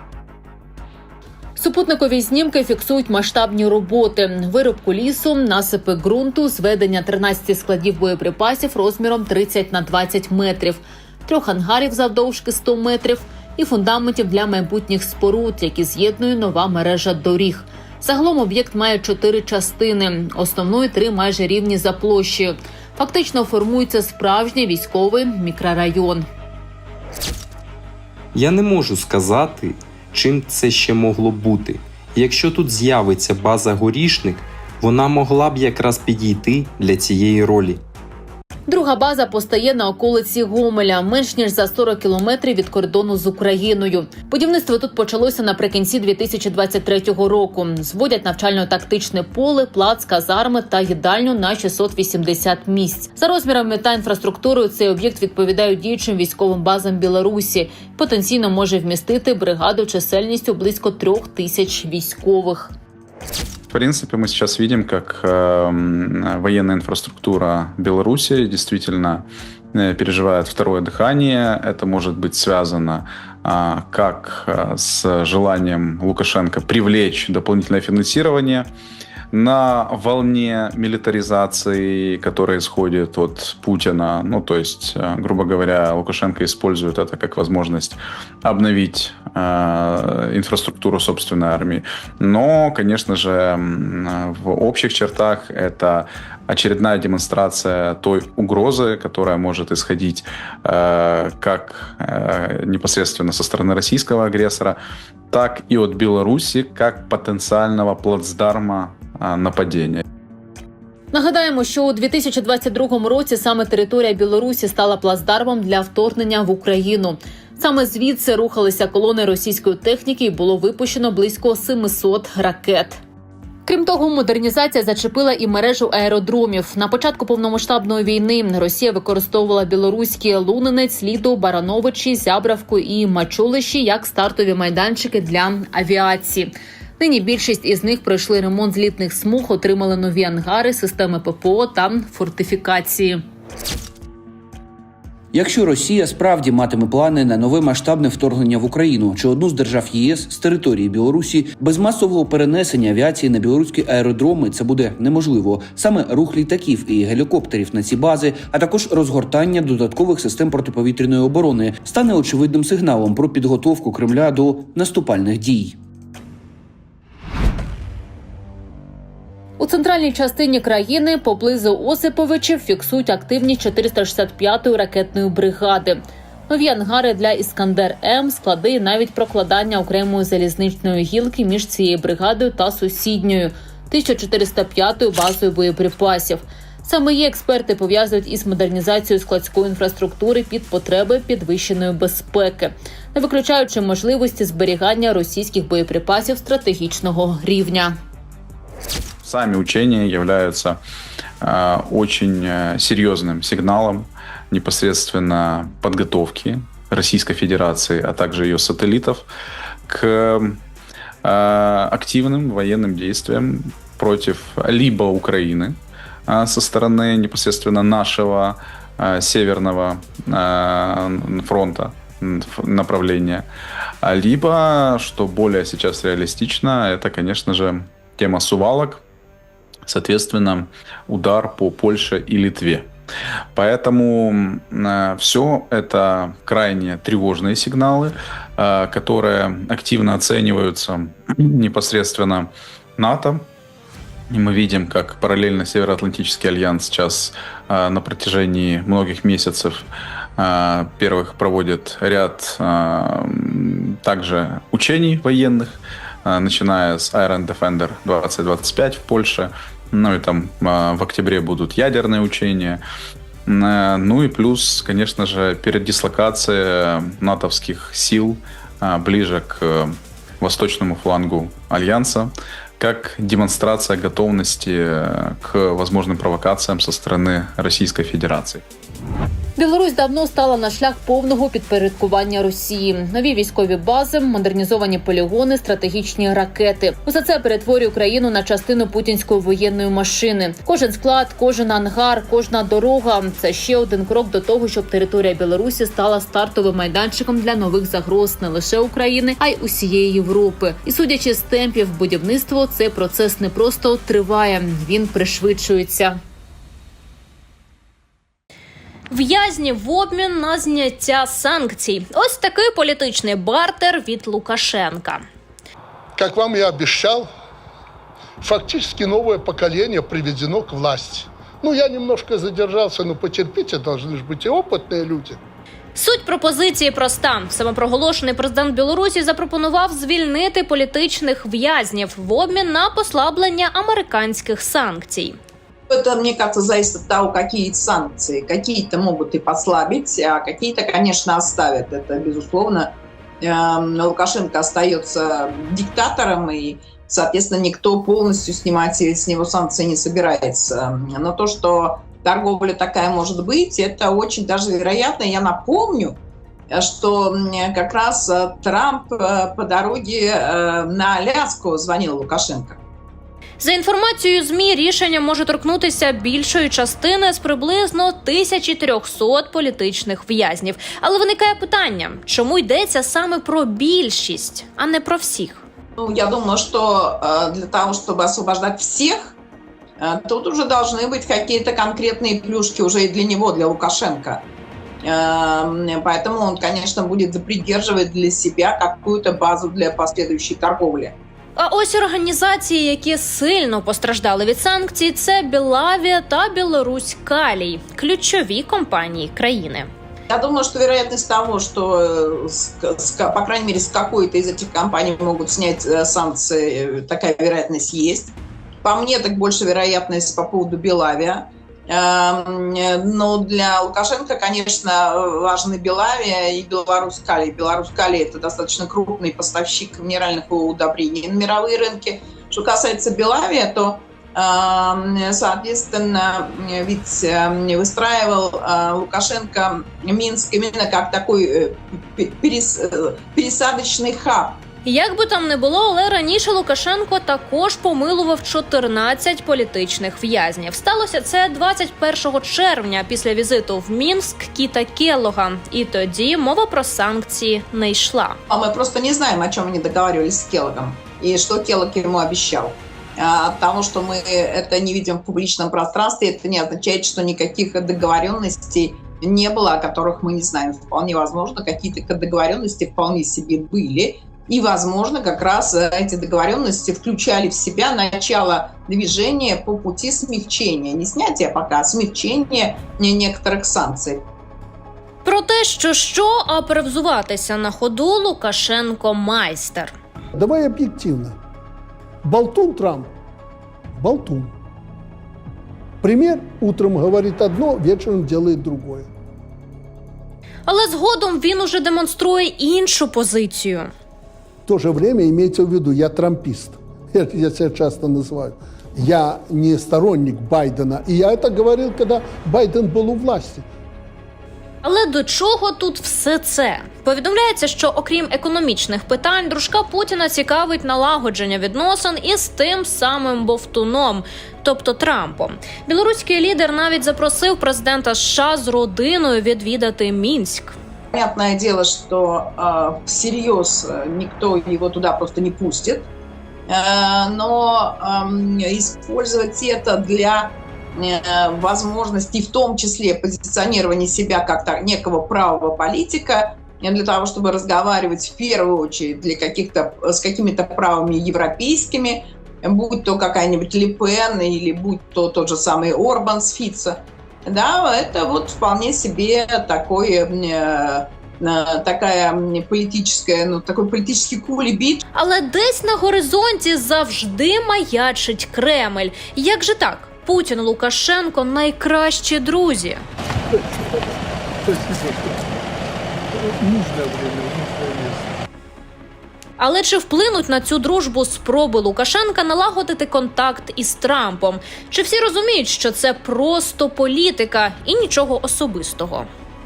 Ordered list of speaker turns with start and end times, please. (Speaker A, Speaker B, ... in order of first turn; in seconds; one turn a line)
Speaker A: 1.6-26.3
Speaker B: 28.3-37.8
Speaker A: 38.7-62.7
Speaker C: 63.7-78.7
Speaker C: 79.3-104.8
Speaker C: 105.3-110.0
Speaker A: 111.1-123.0
Speaker A: 123.7-143.2
Speaker D: 145.3-165.8
Speaker A: 169.6-198.0
Speaker C: 199.2-200.8
Speaker C: 201.4-209.3
Speaker C: 209.9-210.6
Speaker C: 211.2-223.5
Speaker C: 224.0-229.0
Speaker C: 229.9-232.9
Speaker C: 233.5-243.5
Speaker C: 244.3-249.8
Speaker C: 250.4-262.8
Speaker C: 263.5-278.6
Speaker A: 279.6-306.2
Speaker E: 309.1-315.2
Speaker F: 316.2-317.3
Speaker F: 318.4-325.4
Speaker E: 325.9-335.4
Speaker G: 335.9-356.2
Speaker G: 356.7-362.8
Speaker E: 363.6-375.6
Speaker G: 376.0-379.4
Speaker G: 380.0-384.4
Speaker G: 385.0-391.1
Speaker E: 391.6-399.9
Speaker G: 400.3-434.6
Speaker E: 434.9-448.4
Speaker G: 448.5-474.2
Speaker E: 475.2-479.9
Speaker F: 480.4-481.4
Speaker F: 482.2-483.1
Speaker F: 483.9-484.5
Speaker F: 486.0-489.1
Speaker E: 490.7-493.9
Speaker F: 494.7-503.7
Speaker E: 504.8-520.8
Speaker G: 521.1-526.1
Speaker G: 526.7-555.0
Speaker E: 555.1-563.0
Speaker F: 564.6-565.4
Speaker F: 566.3-568.3
Speaker E: 569.6-579.3